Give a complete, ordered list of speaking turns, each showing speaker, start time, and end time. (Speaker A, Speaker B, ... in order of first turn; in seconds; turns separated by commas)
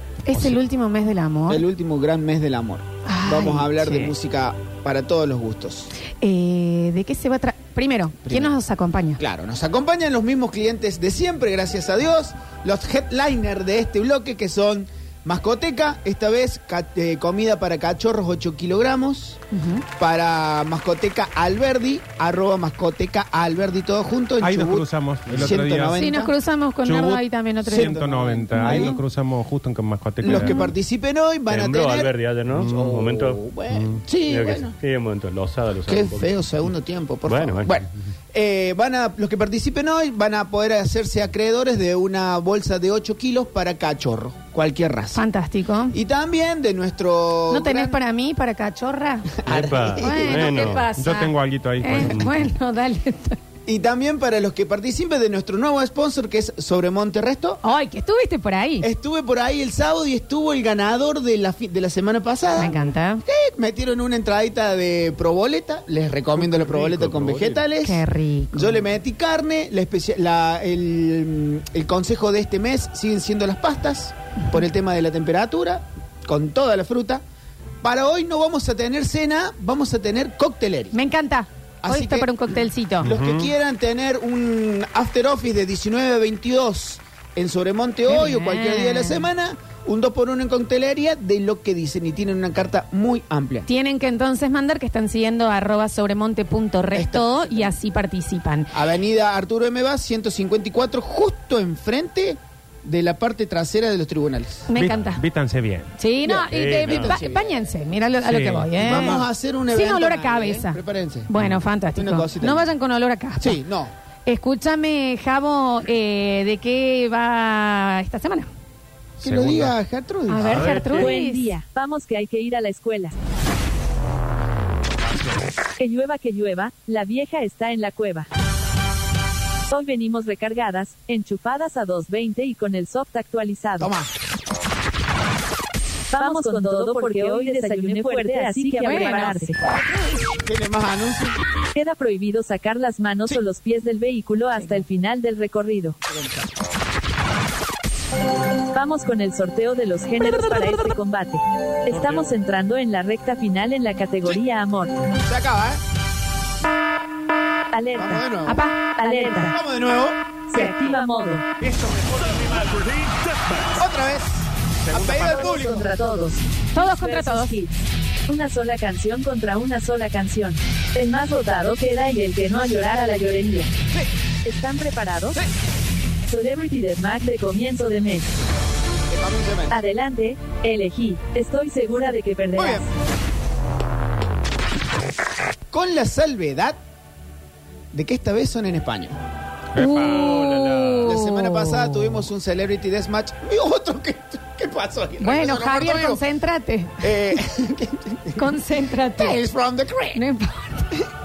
Speaker A: 0.2-1.6, Speaker B: 1.5-5.9, Speaker A: 3.0-4.1, Speaker A: 6.2-9.2, Speaker B: 8.2-8.5, Speaker B: 9.2-19.4, Speaker A: 19.5-19.8, Speaker B: 20.0-26.3, Speaker C: 24.4-26.1, Speaker D: 25.3-25.5, Speaker A: 25.9-29.0, Speaker C: 26.8-30.6, Speaker B: 27.7-29.0, Speaker A: 30.2-30.7, Speaker B: 30.2-34.7, Speaker D: 31.5-33.4, Speaker C: 32.5-32.8, Speaker C: 33.7-34.0, Speaker D: 34.2-36.3, Speaker B: 35.9-45.2, Speaker D: 37.3-37.9, Speaker A: 45.1-46.0, Speaker B: 45.9-48.0, Speaker A: 47.5-49.3, Speaker B: 49.4-50.7, Speaker D: 49.5-50.9, Speaker A: 50.0-53.4, Speaker C: 51.0-52.3, Speaker B: 53.6-57.6, Speaker A: 57.6-58.9, Speaker B: 58.8-62.7, Speaker A: 62.6-63.2, Speaker B: 63.2-77.2, Speaker D: 66.5-67.6, Speaker A: 67.8-68.8, Speaker B: 77.8-80.9, Speaker A: 80.9-83.1, Speaker B: 81.8-82.3, Speaker C: 83.0-83.5, Speaker B: 83.0-93.7, Speaker A: 88.1-89.3, Speaker A: 93.7-98.7, Speaker B: 96.9-97.7, Speaker B: 98.7-104.7, Speaker A: 104.7-105.2, Speaker C: 104.7-105.9, Speaker A: 106.0-113.6, Speaker B: 106.2-107.7, Speaker D: 106.5-107.2, Speaker C: 108.2-109.2, Speaker B: 108.8-111.3, Speaker B: 111.9-112.7, Speaker B: 113.4-113.9, Speaker A: 114.3-118.5, Speaker B: 119.2-121.1, Speaker C: 119.2-119.8, Speaker A: 120.3-121.6, Speaker C: 120.4-120.9, Speaker E: 120.9-123.1, Speaker C: 125.0-125.4, Speaker E: 125.8-128.3, Speaker E: 129.7-133.9, Speaker B: 133.8-134.1, Speaker E: 136.1-139.6, Speaker A: 136.2-139.5, Speaker B: 140.3-141.3, Speaker E: 141.7-146.0, Speaker B: 146.1-146.4, Speaker E: 148.7-155.0, Speaker B: 155.2-155.8, Speaker E: 157.7-158.2, Speaker B: 158.0-158.6, Speaker A: 158.4-159.4, Speaker E: 158.9-159.5, Speaker B: 159.5-160.2, Speaker E: 160.5-161.4, Speaker C: 162.3-162.7, Speaker B: 163.8-165.8, Speaker C: 164.8-165.5, Speaker E: 165.2-167.8, Speaker A: 166.7-167.6, Speaker E: 168.3-173.7, Speaker E: 174.4-175.4, Speaker E: 176.2-178.3, Speaker B: 179.1-179.8, Speaker E: 179.7-182.9, Speaker B: 182.6-182.8, Speaker B: 185.7-186.8, Speaker B: 187.9-189.1, Speaker C: 189.7-191.1, Speaker A: 189.8-192.2, Speaker D: 190.2-191.0, Speaker B: 191.0-196.2, Speaker A: 195.2-197.0, Speaker B: 197.0-198.4, Speaker A: 198.4-199.4, Speaker B: 199.2-200.2, Speaker A: 200.1-201.0